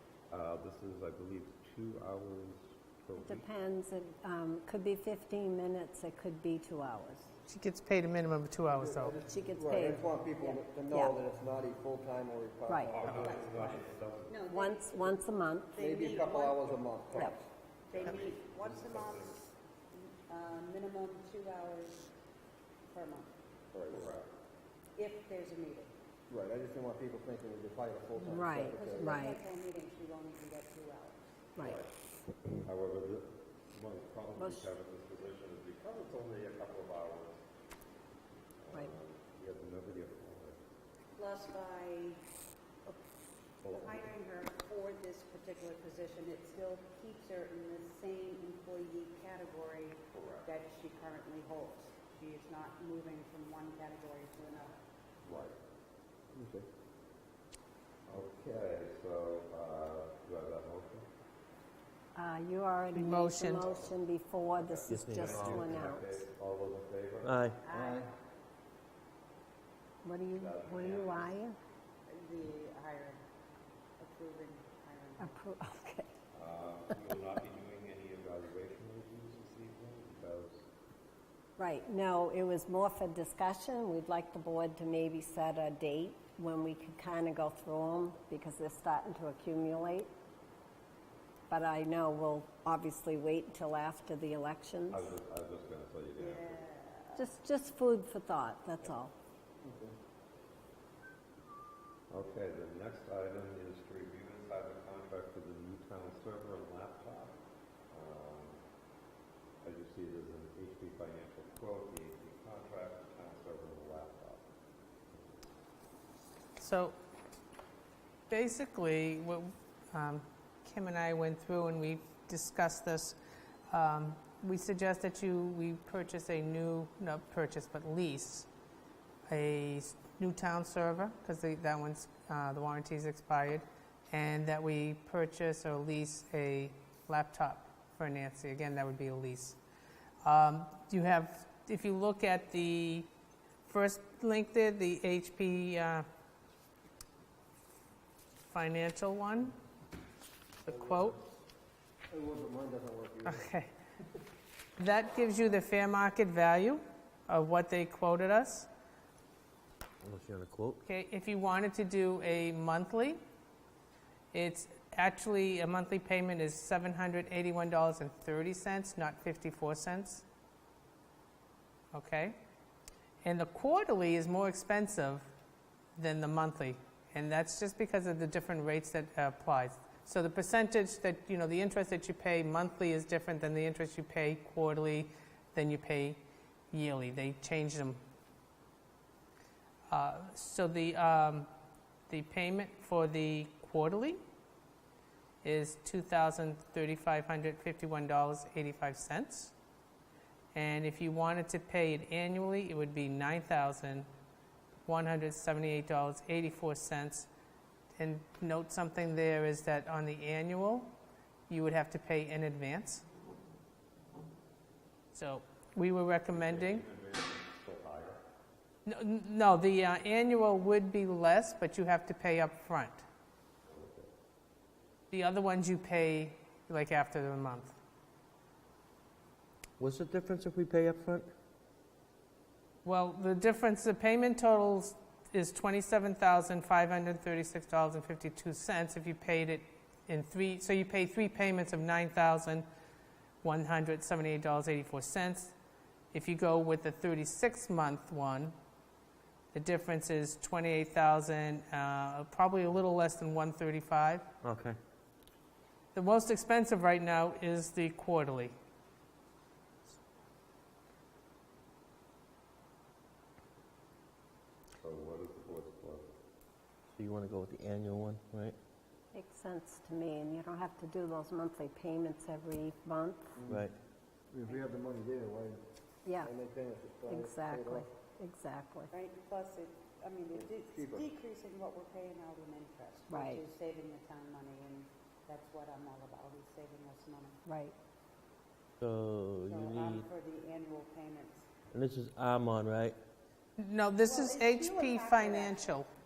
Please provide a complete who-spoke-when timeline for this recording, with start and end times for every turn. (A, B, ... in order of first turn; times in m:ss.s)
0:00.3-0:03.5 A
0:03.2-0:07.3 B
0:07.5-0:09.2 C
0:08.7-0:13.7 D
0:09.2-0:10.0 B
0:12.7-0:13.0 B
0:12.9-0:14.4 A
0:13.2-0:15.2 E
0:14.5-0:15.8 B
0:15.7-0:16.8 E
0:15.8-0:17.5 D
0:17.9-0:22.1 E
0:17.9-0:19.4 A
0:22.9-0:23.4 E
0:23.7-0:24.1 D
0:23.8-0:24.3 A
0:25.0-0:25.9 E
0:26.3-0:29.2 D
0:28.2-0:29.4 B
0:28.8-0:31.2 E
0:31.6-0:31.9 A
0:32.5-0:37.4 A
0:34.4-0:34.7 B
0:38.6-0:40.6 A
0:41.2-0:42.2 E
0:43.6-0:44.1 A
0:43.6-0:54.8 E
0:50.1-0:50.5 A
0:55.2-0:55.6 A
0:56.3-0:56.7 D
0:58.1-1:01.1 A
1:02.2-1:06.1 B
1:02.9-1:03.7 C
1:03.6-1:03.9 A
1:04.6-1:07.4 A
1:04.9-1:05.6 F
1:07.2-1:07.6 F
1:07.6-1:08.1 E
1:07.7-1:08.1 D
1:10.0-1:11.6 B
1:10.3-1:11.4 A
1:12.1-1:13.2 E
1:14.0-1:15.4 E
1:15.2-1:16.1 B
1:16.3-1:20.7 A
1:21.6-1:30.1 B
1:31.5-1:35.1 B
1:34.9-1:36.6 A
1:36.1-1:37.3 E
1:37.2-1:39.1 B
1:39.6-1:40.0 D
1:42.1-1:47.4 A
1:47.9-1:48.6 A
1:49.6-1:54.5 A
1:56.6-1:57.0 C
1:58.3-2:03.2 C
2:03.7-2:08.5 C
2:09.3-2:19.6 C
2:20.2-2:23.1 C
2:23.7-2:26.0 C
2:28.5-2:29.6 C
2:30.6-2:31.2 C
2:30.7-2:31.0 D
2:32.1-2:33.5 D
2:33.3-2:33.7 C
2:34.8-2:38.7 C
2:40.0-2:40.8 F
2:40.8-2:43.2 C
2:44.3-2:50.2 C
2:51.9-2:52.4 C
2:53.2-2:55.3 C
2:56.0-3:08.0 C
3:09.9-3:11.5 C
3:12.1-3:14.2 C
3:15.4-3:19.5 C
3:20.5-3:24.1 C
3:24.8-3:27.3 C
3:28.0-3:31.0 C
3:31.5-3:33.0 C
3:35.1-3:36.8 C
3:36.3-3:38.2 A
3:38.9-3:43.0 C
3:43.6-3:44.1 A
3:45.1-3:47.7 C
3:49.8-3:51.3 F
3:52.8-4:02.6 C
4:03.4-4:05.5 C
4:06.1-4:08.5 C
4:09.5-4:14.3 C
4:16.0-4:18.5 C
4:24.8-4:26.0 A
4:27.0-4:28.6 F
4:29.1-4:33.4 B
4:33.4-4:33.7 D
4:34.3-4:35.6 D
4:34.5-4:34.7 E
4:36.1-4:36.3 B
4:36.2-4:37.9 D
4:37.1-4:38.9 B
4:38.9-4:47.4 E
4:40.3-4:41.1 D
4:43.1-4:43.4 B
4:47.5-4:47.8 B
4:48.8-4:50.1 F
4:49.4-4:51.5 E
4:51.7-4:53.0 F
4:53.6-4:55.9 C
4:54.0-4:55.9 E